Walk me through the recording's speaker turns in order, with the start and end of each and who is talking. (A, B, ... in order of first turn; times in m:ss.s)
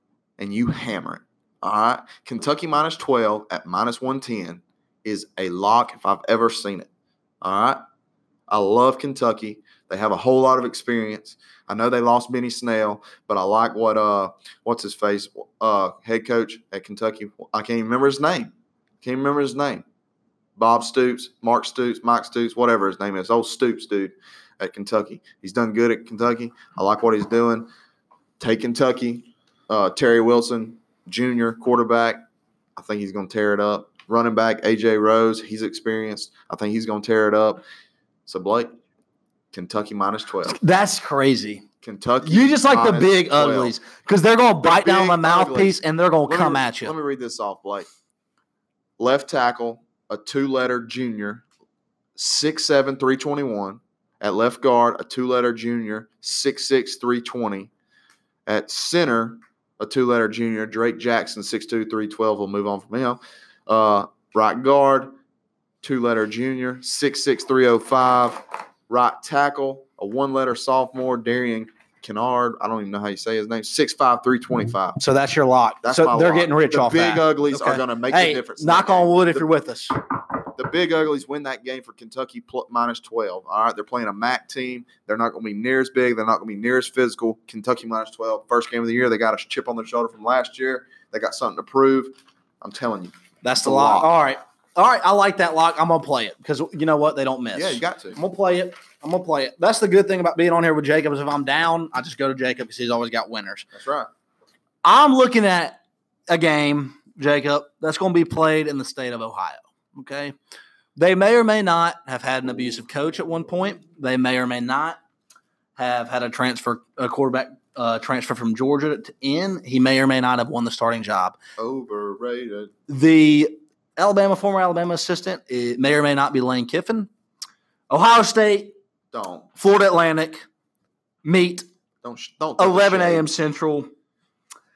0:00.4-0:06.9 A
0:07.4-0:07.8 A
0:08.5-0:19.8 A
0:20.6-0:27.7 A
0:28.4-0:32.2 A
0:32.8-0:37.6 A
0:38.2-0:38.8 A
0:39.5-0:40.6 A
0:40.5-0:41.6 B
0:41.8-0:43.7 A
0:42.2-0:46.9 B
0:44.6-0:47.9 A
0:49.0-0:51.4 A
0:52.2-0:57.7 A
0:58.4-1:05.1 A
1:05.8-1:15.0 A
1:15.0-1:20.0 B
1:15.8-1:19.5 A
1:20.5-1:34.1 A
1:33.4-1:43.7 B
1:37.5-1:38.2 A
1:43.7-1:44.1 A
1:44.8-1:50.3 B
1:51.0-1:55.0 B
1:55.8-2:01.4 B
2:01.6-2:02.7 A
2:02.9-2:07.1 B
2:07.9-2:08.7 B
2:09.1-2:09.5 A
2:09.6-2:10.4 B
2:11.2-2:11.6 B
2:12.0-2:13.3 A
2:12.6-2:13.9 B